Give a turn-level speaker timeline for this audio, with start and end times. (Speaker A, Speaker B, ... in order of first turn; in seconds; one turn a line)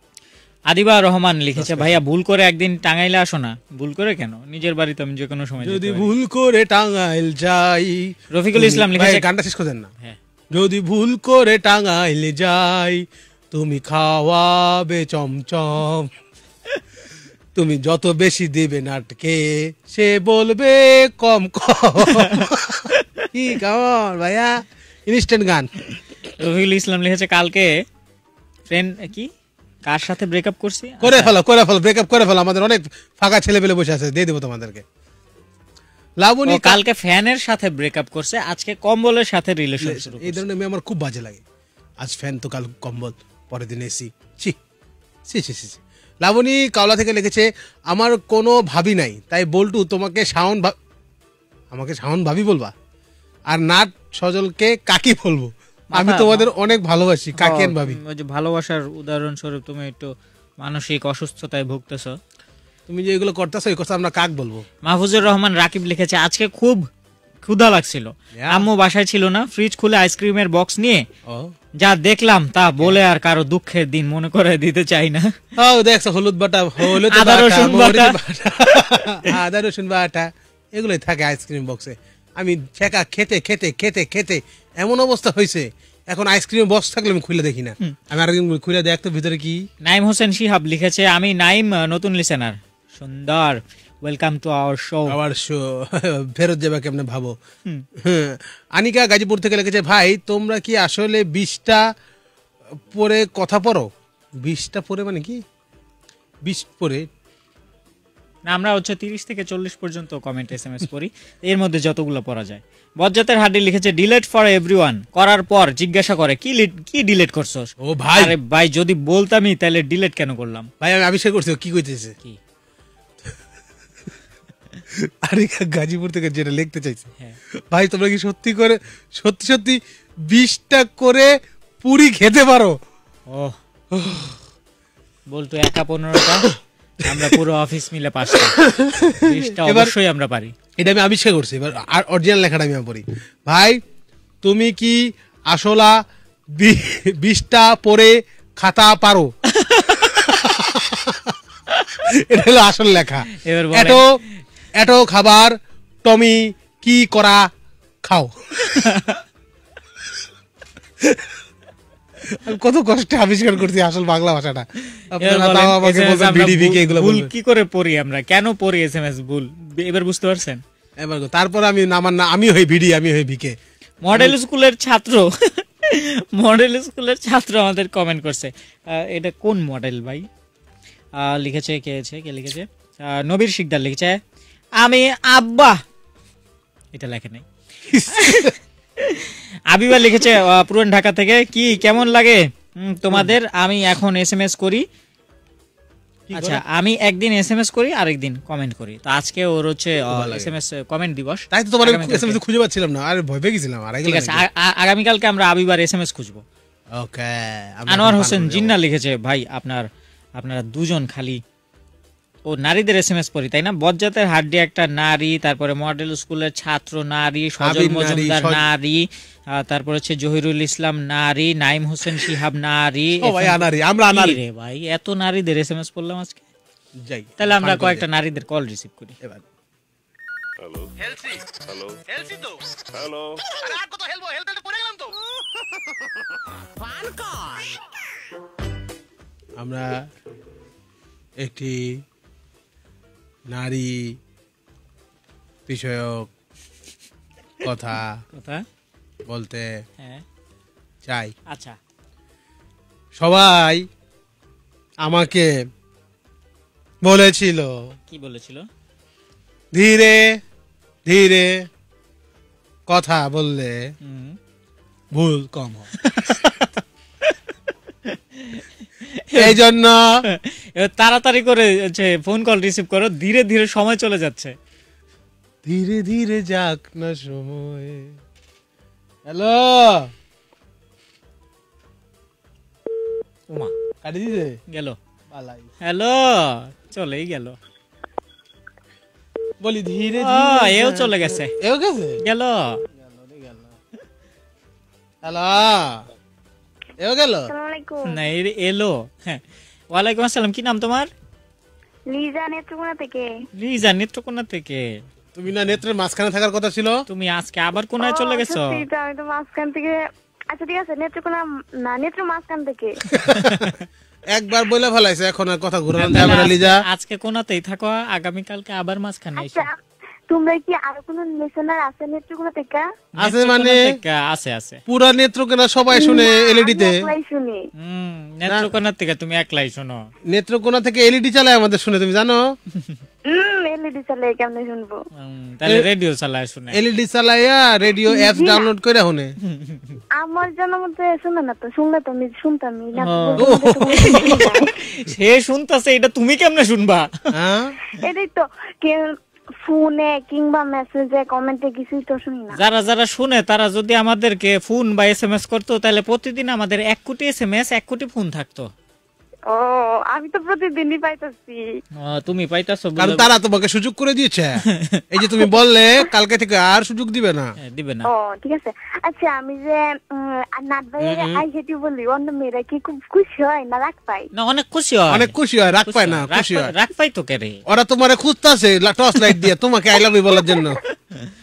Speaker A: 0.7-6.1
Speaker B: 1.6-1.9
Speaker B: 5.6-9.9
Speaker A: 8.3-9.2
Speaker B: 10.5-16.1
Speaker B: 17.6-25.7
Speaker A: 22.0-23.0
Speaker A: 26.4-27.8
Speaker A: 28.7-29.3
Speaker A: 29.9-31.3
Speaker B: 31.0-34.8
Speaker B: 36.2-36.8
Speaker A: 36.5-40.4
Speaker B: 39.8-41.4
Speaker B: 42.0-44.6
Speaker B: 45.3-50.8
Speaker B: 51.7-52.7
Speaker B: 53.5-58.0
Speaker A: 55.9-56.5
Speaker A: 57.4-62.2
Speaker B: 62.9-64.7
Speaker A: 64.8-66.8
Speaker A: 67.4-71.0
Speaker B: 68.3-68.7
Speaker B: 71.3-71.5
Speaker A: 71.8-75.3
Speaker B: 75.6-89.6
Speaker A: 76.8-78.2
Speaker A: 89.8-95.2
Speaker B: 95.1-97.4
Speaker B: 98.0-101.8
Speaker B: 102.9-103.9
Speaker B: 104.4-105.4
Speaker B: 106.4-107.1
Speaker A: 108.5-120.7
Speaker B: 117.8-118.3
Speaker B: 120.8-122.2
Speaker B: 124.9-127.1
Speaker B: 127.7-132.8
Speaker A: 133.3-133.6
Speaker B: 133.9-134.4
Speaker A: 135.3-138.6
Speaker B: 138.4-139.9
Speaker A: 139.2-140.5
Speaker B: 140.8-143.8
Speaker B: 144.4-149.3
Speaker A: 149.5-150.0
Speaker B: 150.0-151.4
Speaker B: 152.0-154.2
Speaker A: 153.3-154.0
Speaker B: 154.8-157.5
Speaker B: 158.0-158.9
Speaker A: 158.7-159.2
Speaker B: 161.0-161.4
Speaker B: 162.2-167.3
Speaker A: 165.2-170.6
Speaker B: 171.0-173.6
Speaker A: 174.0-180.3
Speaker A: 181.2-184.2
Speaker A: 184.8-185.8
Speaker A: 186.9-187.4
Speaker B: 187.9-188.5
Speaker A: 188.1-194.8
Speaker B: 196.3-196.6
Speaker A: 196.3-202.4
Speaker B: 200.1-200.5
Speaker B: 201.5-204.4
Speaker A: 204.1-206.4
Speaker B: 206.9-208.8
Speaker A: 207.9-211.4
Speaker A: 212.5-226.4
Speaker B: 217.6-218.6
Speaker B: 223.2-224.4
Speaker B: 227.0-228.1
Speaker A: 227.4-229.2
Speaker B: 231.0-237.8
Speaker B: 239.6-240.1
Speaker B: 241.4-242.0
Speaker B: 243.5-244.2
Speaker B: 245.7-246.3
Speaker B: 247.6-248.2
Speaker A: 248.3-248.6
Speaker B: 249.3-249.8
Speaker B: 251.1-251.3
Speaker A: 251.5-251.8
Speaker B: 253.2-253.9
Speaker B: 255.0-255.5
Speaker B: 257.0-257.9
Speaker A: 258.1-258.7
Speaker B: 259.7-260.4
Speaker B: 261.1-261.7
Speaker B: 262.9-263.9
Speaker A: 264.0-264.4
Speaker B: 265.1-265.9
Speaker A: 266.0-267.4
Speaker A: 268.1-269.6
Speaker B: 269.4-270.1
Speaker A: 270.3-274.6
Speaker B: 275.6-278.2
Speaker B: 279.3-280.1
Speaker B: 284.0-284.6
Speaker A: 284.7-285.0
Speaker B: 285.3-285.7
Speaker A: 285.8-287.6
Speaker B: 289.6-292.2
Speaker A: 290.2-291.6
Speaker A: 292.2-292.9
Speaker B: 293.0-293.8
Speaker B: 295.2-296.1
Speaker B: 297.0-297.5
Speaker C: 297.5-298.2
Speaker A: 298.1-301.1
Speaker C: 302.1-303.3
Speaker A: 303.6-304.9
Speaker B: 305.4-307.1
Speaker A: 307.1-308.8
Speaker C: 308.0-313.0
Speaker B: 313.1-313.8
Speaker A: 313.2-313.8
Speaker B: 314.3-316.8
Speaker A: 316.0-319.7
Speaker C: 316.2-316.5
Speaker C: 319.4-319.8
Speaker C: 320.3-322.9
Speaker A: 323.2-324.8
Speaker B: 323.2-324.0
Speaker B: 324.9-327.1
Speaker C: 325.9-327.7
Speaker A: 327.8-330.1
Speaker B: 330.3-332.6
Speaker C: 333.3-335.0
Speaker A: 335.2-336.8
Speaker B: 336.7-339.4
Speaker C: 338.1-338.7
Speaker A: 339.4-340.0
Speaker C: 340.2-344.7
Speaker A: 343.0-347.1
Speaker B: 343.4-344.5
Speaker B: 347.3-347.7
Speaker C: 348.0-352.6
Speaker A: 352.6-358.7
Speaker C: 359.5-361.8
Speaker A: 362.0-363.3
Speaker B: 363.0-367.6
Speaker A: 364.7-365.0
Speaker A: 367.6-368.1
Speaker C: 368.1-374.3
Speaker B: 371.0-371.4
Speaker A: 374.3-377.6
Speaker B: 375.1-376.7
Speaker B: 377.7-380.8